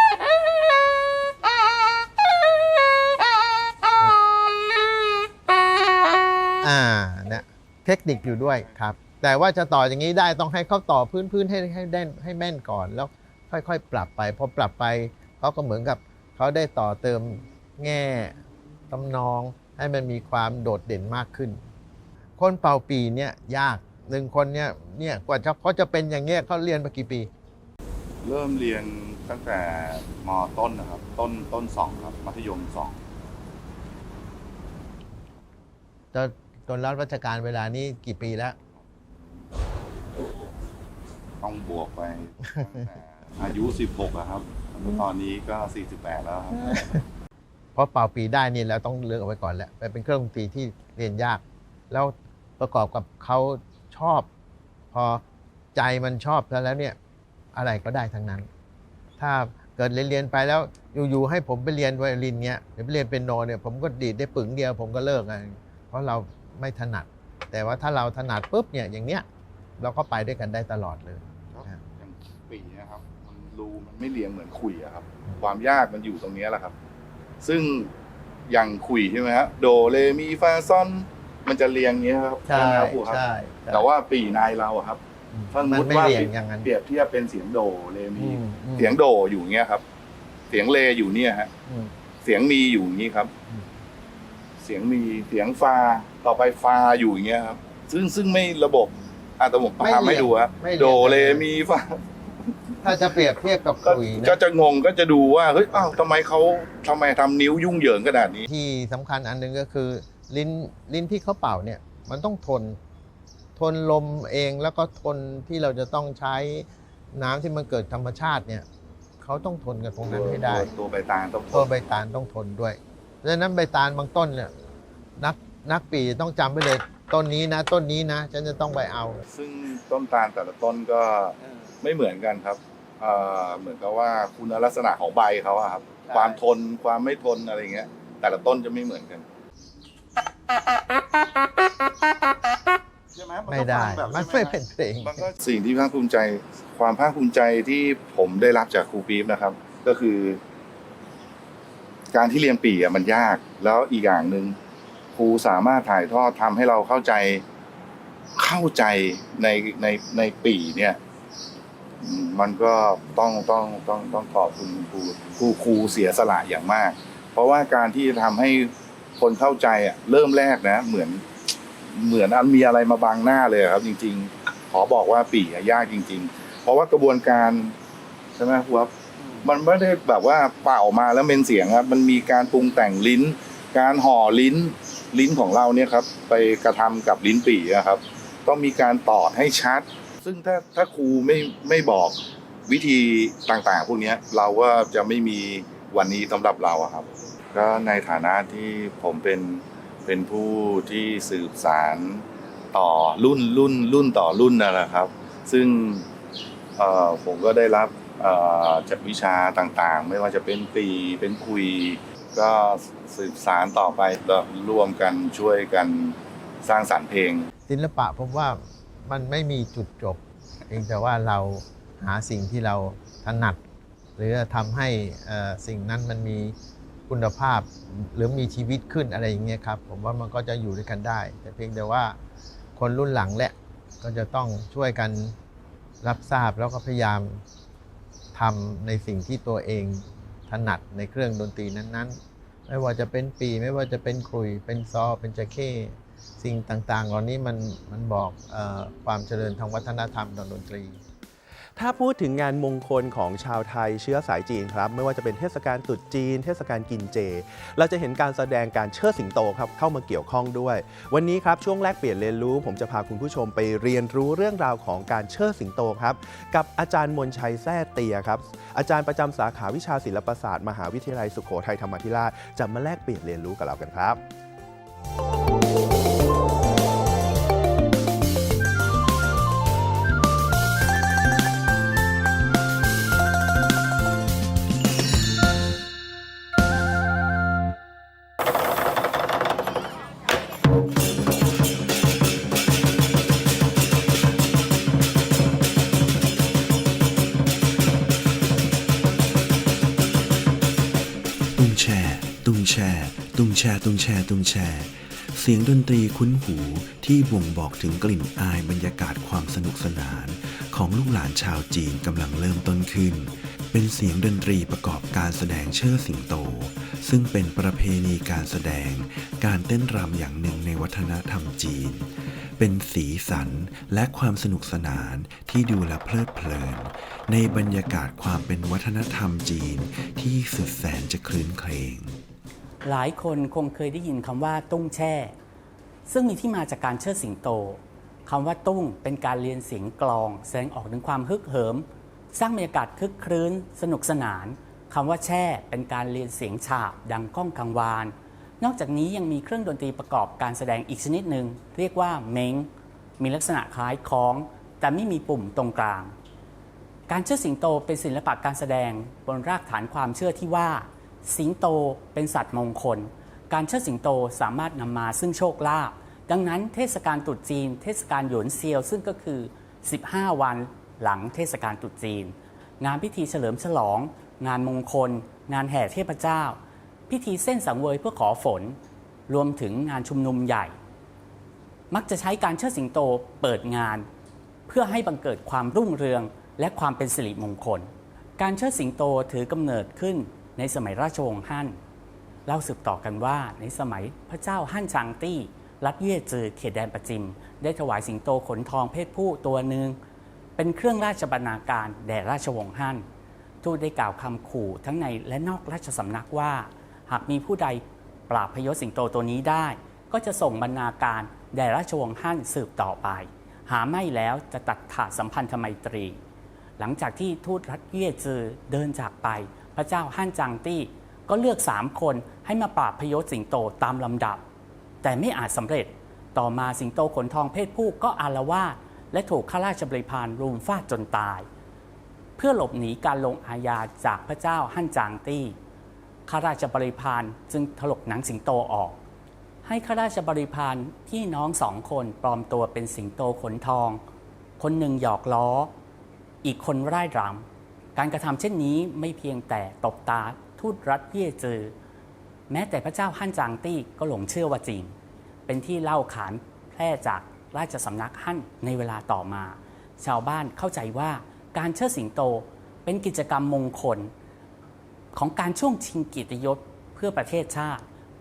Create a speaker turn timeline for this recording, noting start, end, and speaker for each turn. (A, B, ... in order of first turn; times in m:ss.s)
0:06.6-0:18.4 A
0:08.4-0:08.7 B
0:18.9-0:21.6 A
0:22.4-0:27.3 A
0:28.2-0:33.0 B
0:36.1-0:38.6 A
0:38.8-0:39.4 B
0:41.4-0:47.0 B
0:47.8-0:54.3 A
0:54.9-0:55.2 A
0:55.8-0:57.0 A
0:57.5-0:58.5 A
0:59.2-1:09.2 A
1:09.8-1:11.8 A
1:11.5-1:16.8 B
1:17.4-1:17.9 B
1:18.5-1:25.0 B
1:22.5-1:23.9 A
1:25.3-1:26.7 A
1:25.5-1:29.8 B
1:28.2-1:29.0 A
1:30.5-1:31.5 B
1:31.7-1:31.9 A
1:32.2-1:33.3 B
1:34.6-1:42.0 B
1:39.8-1:41.4 A
1:42.8-1:44.4 A
1:42.8-1:48.5 B
1:48.5-1:52.8 A
1:53.6-1:58.7 A
1:59.2-2:00.7 A
2:00.1-2:01.7 B
2:01.5-2:04.5 A
2:05.2-2:09.2 A
2:09.3-2:19.2 B
2:23.1-2:30.4 B
2:23.5-2:25.3 A
2:32.1-2:34.6 B
2:35.1-2:37.4 B
2:38.4-2:41.0 B
2:42.0-2:51.2 B
2:51.9-2:57.8 B
2:58.4-2:58.9 B
2:59.4-3:26.1 B
3:26.8-3:37.5 B
3:37.7-3:43.6 A
3:44.2-3:46.6 A
3:47.1-3:52.2 A
3:52.8-3:55.4 A
3:56.0-3:57.4 A
3:58.3-4:11.0 A
4:11.8-4:34.2 C
5:01.5-5:22.1 D
5:22.6-5:32.2 D
5:32.8-5:35.3 E
5:36.1-5:56.1 E
5:57.1-6:16.6 E
6:17.1-6:20.8 E
6:21.9-6:24.1 E
6:24.7-6:31.8 E
6:32.4-6:40.0 E
6:40.6-6:43.0 E
6:43.6-6:56.2 E
6:56.8-7:04.4 E
7:05.0-7:11.4 E
7:12.4-7:15.6 E
7:16.3-7:19.0 E
7:19.6-7:24.0 E
7:24.6-7:25.7 E
7:26.4-7:31.7 E
7:32.5-7:34.9 E
7:35.5-7:44.1 E
7:45.1-7:47.8 E